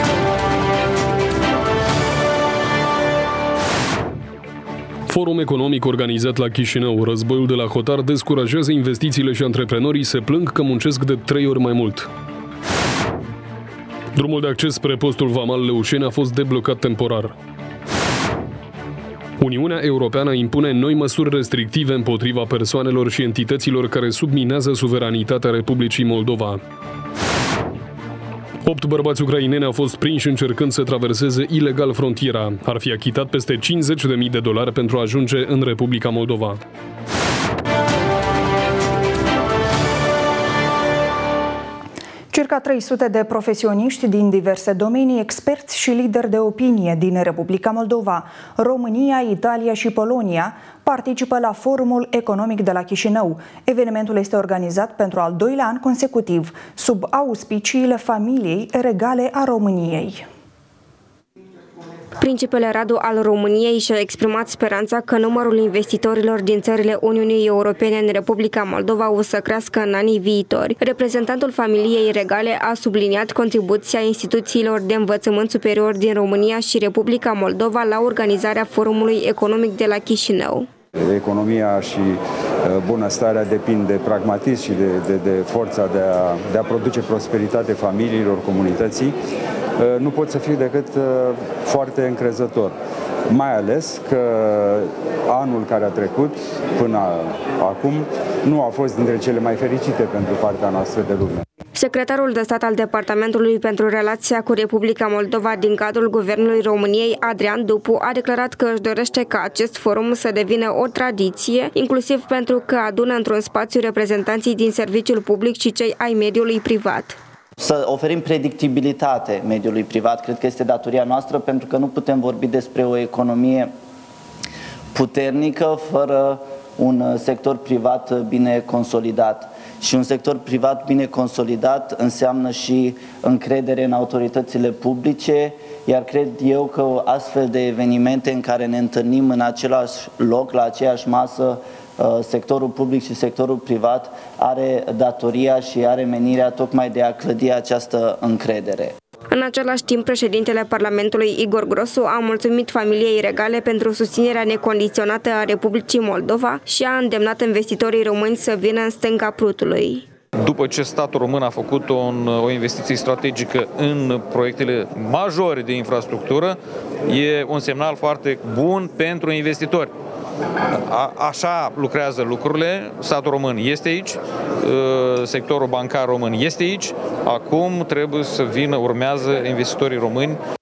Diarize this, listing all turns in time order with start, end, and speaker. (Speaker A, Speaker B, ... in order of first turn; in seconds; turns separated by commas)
Speaker A: 5.1-12.1, Speaker A: 14.1-17.3, Speaker A: 19.4-26.6, Speaker A: 28.6-36.6, Speaker B: 42.3-60.3, Speaker C: 62.2-80.7, Speaker D: 81.0-89.2, Speaker D: 89.8-92.8, Speaker D: 93.3-101.4, Speaker C: 101.8-117.2, Speaker E: 117.6-123.7, Speaker E: 124.9-148.9, Speaker C: 149.3-160.0, Speaker F: 160.4-169.9, Speaker F: 170.9-180.4